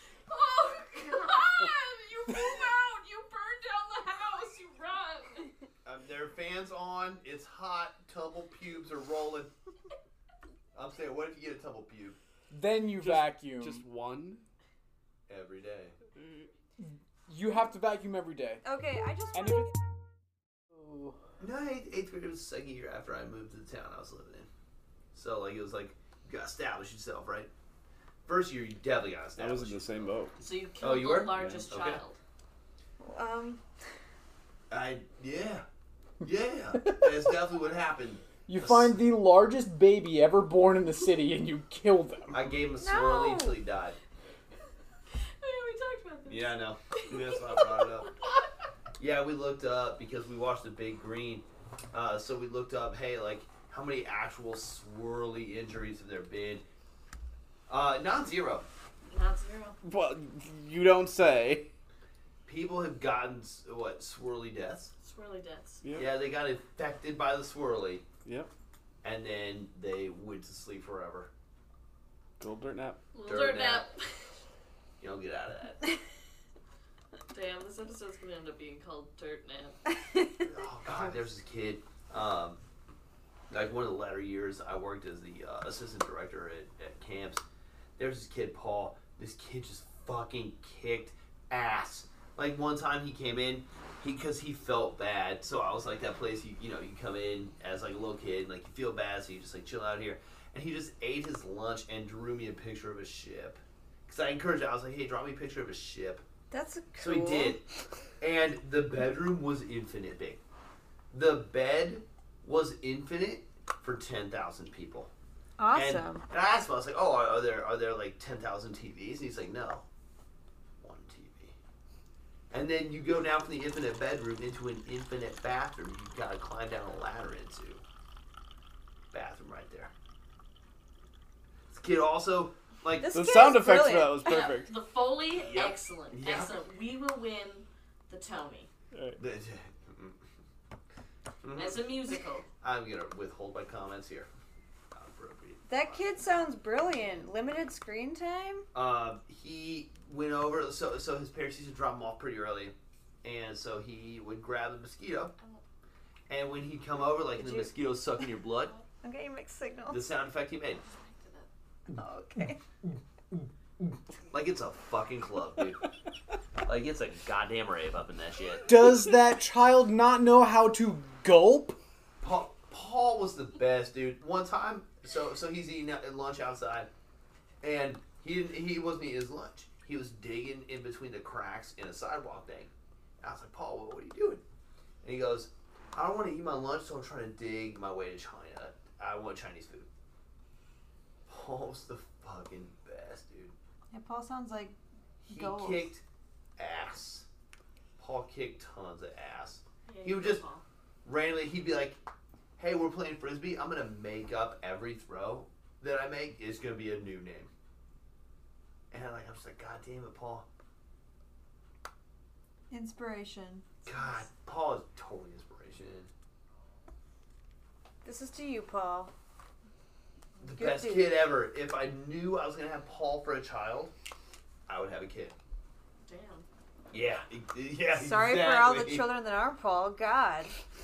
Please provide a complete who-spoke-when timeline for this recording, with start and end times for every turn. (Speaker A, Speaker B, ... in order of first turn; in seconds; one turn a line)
Speaker A: 0.3-5.5
Speaker B: 5.8-9.5
Speaker B: 10.7-12.2
Speaker C: 12.5-13.8
Speaker D: 13.0-14.4
Speaker B: 15.3-15.9
Speaker D: 16.1-16.5
Speaker C: 16.8-18.6
Speaker E: 18.6-19.7
Speaker C: 19.4-19.8
Speaker C: 20.7-21.1
Speaker B: 21.4-24.5
Speaker B: 25.1-27.5
Speaker B: 28.2-30.2
Speaker D: 29.4-30.4
Speaker A: 30.4-32.2
Speaker B: 30.8-32.0
Speaker D: 31.3-31.6
Speaker E: 33.0-33.6
Speaker B: 34.7-35.6
Speaker B: 36.2-38.9
Speaker C: 36.7-37.3
Speaker C: 38.4-42.5
Speaker B: 42.3-44.0
Speaker E: 42.8-43.6
Speaker A: 45.4-48.4
Speaker B: 46.3-48.1
Speaker B: 49.0-56.6
Speaker B: 57.7-58.7
Speaker A: 59.1-59.8
Speaker D: 59.8-61.7
Speaker B: 62.5-64.9
Speaker A: 65.0-65.8
Speaker D: 65.8-66.2
Speaker B: 66.0-68.1
Speaker D: 68.2-68.5
Speaker B: 69.0-71.3
Speaker D: 72.4-73.1
Speaker A: 73.1-74.3
Speaker B: 73.2-73.9
Speaker B: 75.0-75.8
Speaker A: 77.3-79.8
Speaker E: 80.0-81.0
Speaker B: 80.4-82.6
Speaker B: 83.5-87.4
Speaker B: 88.0-106.2
Speaker E: 106.5-107.6
Speaker B: 107.0-107.6
Speaker B: 108.2-110.4
Speaker B: 111.1-115.1
Speaker E: 115.6-116.2
Speaker B: 115.7-119.9
Speaker B: 120.8-121.5
Speaker B: 122.5-127.8
Speaker B: 129.1-129.9
Speaker B: 131.7-133.1
Speaker E: 133.0-134.3
Speaker D: 133.1-134.8
Speaker A: 134.2-138.7
Speaker B: 135.3-136.5
Speaker D: 138.9-139.2
Speaker B: 139.2-140.2
Speaker B: 141.4-141.9
Speaker A: 141.5-142.5
Speaker B: 142.6-144.3
Speaker B: 144.9-146.2
Speaker E: 145.7-148.7
Speaker B: 148.7-155.3
Speaker A: 155.4-155.6
Speaker B: 156.3-158.7
Speaker E: 157.4-157.8
Speaker E: 159.0-160.1
Speaker B: 159.9-160.8
Speaker A: 160.8-161.5
Speaker E: 161.9-162.6
Speaker B: 164.3-165.8
Speaker B: 166.6-168.7
Speaker C: 168.7-171.8
Speaker B: 172.2-176.9
Speaker B: 177.6-184.4
Speaker B: 185.0-189.9
Speaker B: 191.3-193.5
Speaker E: 193.9-195.9
Speaker B: 195.3-196.0
Speaker B: 196.6-197.3
Speaker B: 198.0-200.4
Speaker A: 199.8-200.6
Speaker B: 201.0-202.0
Speaker B: 202.6-207.5
Speaker B: 208.9-210.5
Speaker E: 212.7-214.2
Speaker B: 213.8-216.1
Speaker E: 218.0-219.1
Speaker B: 220.4-223.9
Speaker E: 220.4-221.2
Speaker B: 224.7-225.3
Speaker A: 226.0-226.4
Speaker B: 226.9-229.2
Speaker E: 227.9-230.6